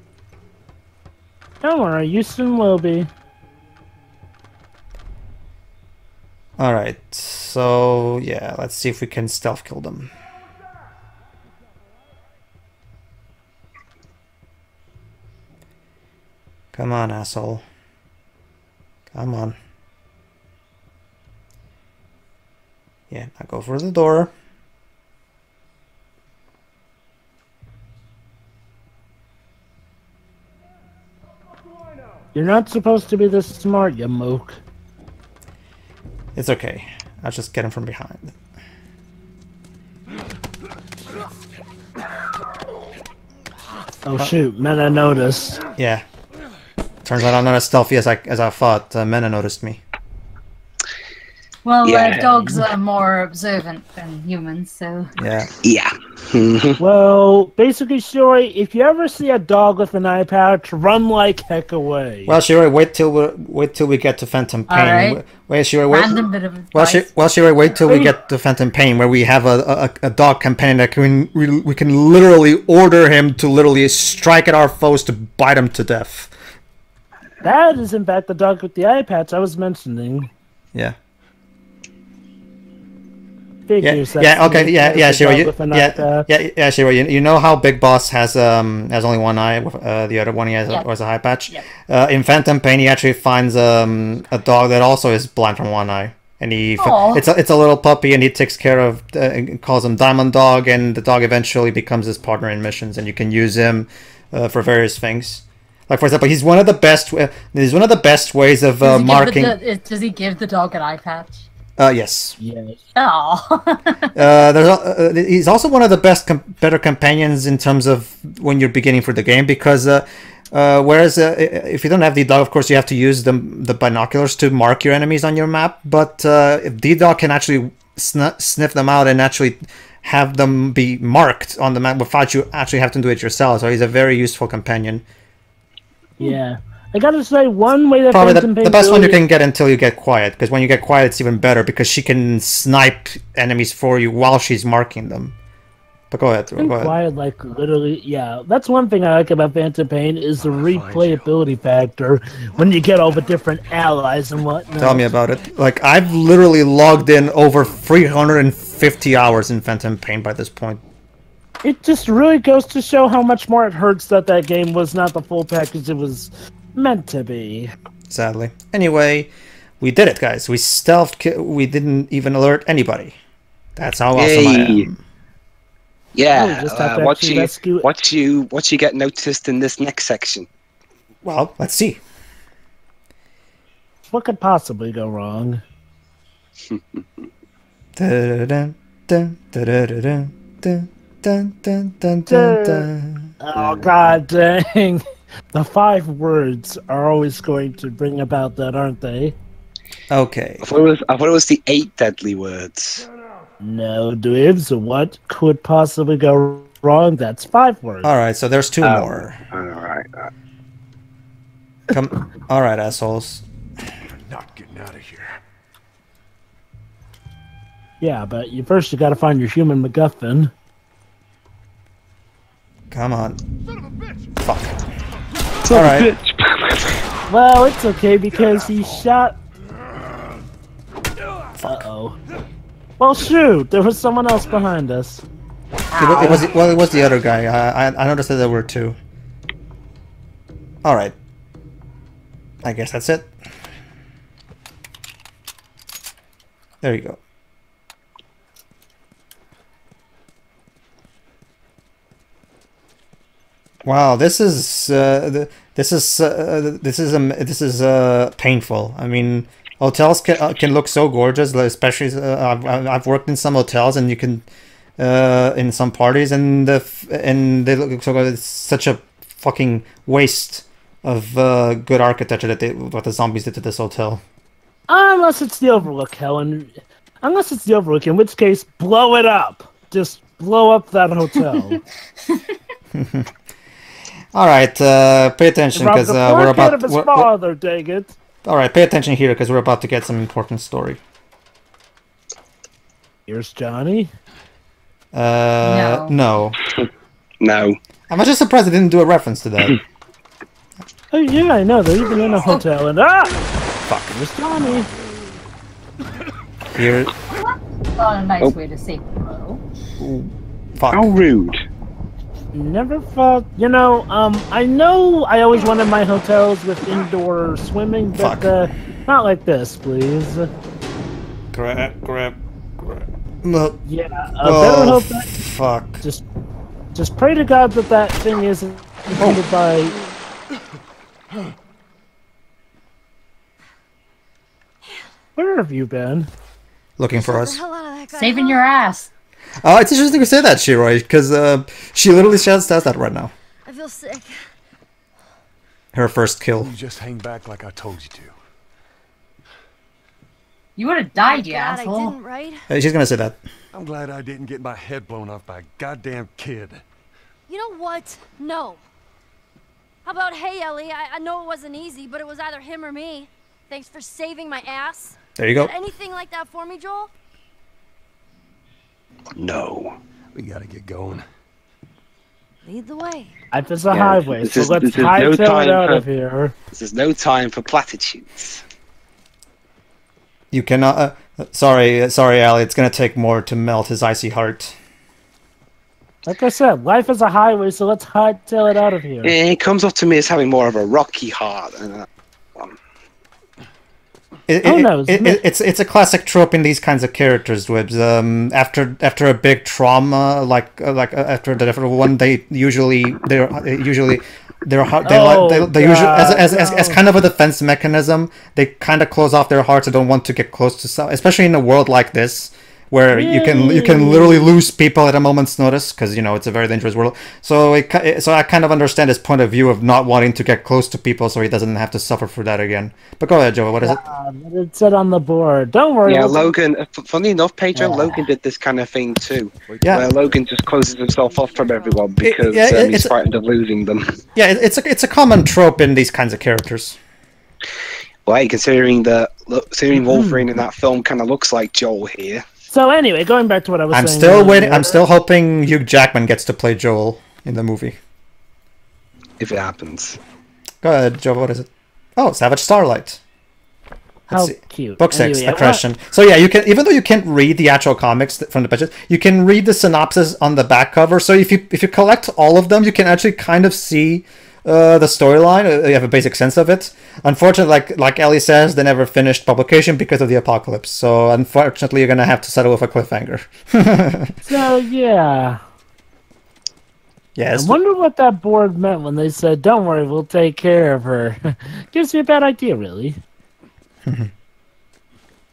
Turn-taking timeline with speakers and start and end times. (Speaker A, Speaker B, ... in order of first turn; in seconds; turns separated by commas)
Speaker A: 1.6-3.1, Speaker B: 6.6-10.1, Speaker B: 16.7-17.6, Speaker B: 19.1-19.6, Speaker B: 23.1-24.3, Speaker A: 32.3-34.6, Speaker B: 36.4-38.3, Speaker A: 44.0-45.6, Speaker B: 45.8-46.0, Speaker B: 47.0-49.8, Speaker C: 51.6-55.1, Speaker D: 51.8-52.4, Speaker A: 52.1-52.6, Speaker B: 55.2-55.5, Speaker D: 55.6-56.8, Speaker A: 56.8-62.3, Speaker B: 62.3-76.3, Speaker C: 64.7-65.2, Speaker C: 65.9-67.0, Speaker C: 67.7-68.1, Speaker A: 77.4-80.3, Speaker A: 83.7-86.3, Speaker B: 83.8-109.6, Speaker C: 96.8-97.2, Speaker C: 108.8-111.5, Speaker B: 111.8-112.4, Speaker A: 112.4-112.8, Speaker C: 112.9-114.1, Speaker B: 114.1-135.0, Speaker A: 136.2-139.2, Speaker B: 138.1-145.3, Speaker B: 146.1-147.0, Speaker A: 146.6-155.1, Speaker E: 150.4-151.3, Speaker B: 154.8-160.8, Speaker A: 161.6-167.7, Speaker B: 168.1-173.2, Speaker B: 173.8-175.0, Speaker D: 174.1-174.8, Speaker D: 176.1-180.5, Speaker A: 176.3-177.9, Speaker B: 181.2-182.0, Speaker A: 184.1-185.6, Speaker B: 187.9-193.3, Speaker A: 192.3-192.9, Speaker A: 193.4-199.3, Speaker D: 193.6-193.8, Speaker B: 200.1-200.7, Speaker D: 200.6-203.0, Speaker A: 203.6-208.1, Speaker B: 208.0-209.4, Speaker D: 208.8-210.3, Speaker B: 211.9-213.4, Speaker E: 214.1-215.4, Speaker A: 218.0-220.5, Speaker B: 222.9-223.4, Speaker B: 224.4-224.8, Speaker D: 225.7-227.0, Speaker B: 225.7-226.1, Speaker A: 227.3-229.4, Speaker B: 231.6-231.8, Speaker A: 231.6-232.2, Speaker A: 233.0-235.2, Speaker C: 235.9-236.4, Speaker B: 236.0-239.0, Speaker B: 240.8-241.1, Speaker B: 242.6-243.3, Speaker B: 246.8-247.2, Speaker B: 253.8-264.4, Speaker B: 265.0-274.2, Speaker A: 274.9-281.8, Speaker B: 282.9-283.3, Speaker B: 284.3-287.3, Speaker A: 285.8-288.1, Speaker B: 288.4-291.0, Speaker A: 293.3-294.1, Speaker B: 295.1-296.6, Speaker C: 295.6-296.1, Speaker D: 297.4-297.8, Speaker B: 298.1-299.8, Speaker A: 301.1-303.4, Speaker B: 303.9-304.1, Speaker A: 304.1-304.9, Speaker B: 306.7-307.1, Speaker C: 307.9-309.6, Speaker B: 310.0-311.1, Speaker D: 310.9-311.6, Speaker A: 312.5-320.5, Speaker B: 318.1-318.7, Speaker B: 321.5-323.8, Speaker A: 323.9-325.3, Speaker B: 324.4-326.0, Speaker A: 326.9-329.9, Speaker A: 335.4-336.3, Speaker B: 337.0-337.6, Speaker F: 337.2-338.7, Speaker C: 338.1-339.1, Speaker B: 339.6-343.3, Speaker F: 343.6-344.4, Speaker B: 345.9-346.7, Speaker E: 346.6-348.3, Speaker C: 350.8-352.2, Speaker F: 351.1-352.6, Speaker B: 352.7-353.4, Speaker E: 353.7-356.8, Speaker F: 357.5-358.8, Speaker F: 360.0-367.1, Speaker B: 365.4-365.7, Speaker D: 369.4-369.9, Speaker E: 370.3-371.2, Speaker F: 372.6-373.3, Speaker A: 373.5-376.5, Speaker D: 373.9-376.0, Speaker D: 376.7-378.6, Speaker B: 380.5-384.8, Speaker A: 386.2-389.4, Speaker D: 389.2-392.8, Speaker B: 394.5-424.0, Speaker A: 394.6-395.4, Speaker A: 405.0-407.0, Speaker A: 413.1-414.5, Speaker A: 423.8-426.4, Speaker D: 426.1-434.2, Speaker A: 427.7-428.3, Speaker E: 429.7-430.7, Speaker B: 429.8-430.1, Speaker B: 432.2-433.1, Speaker B: 434.3-437.0, Speaker D: 438.2-442.4, Speaker A: 439.9-440.4, Speaker A: 442.7-445.0, Speaker B: 443.9-448.0, Speaker D: 449.4-450.2, Speaker B: 450.8-453.2, Speaker B: 454.3-474.4, Speaker A: 454.3-455.8, Speaker A: 474.4-475.6, Speaker B: 477.4-477.8, Speaker A: 477.5-483.2, Speaker B: 484.0-484.3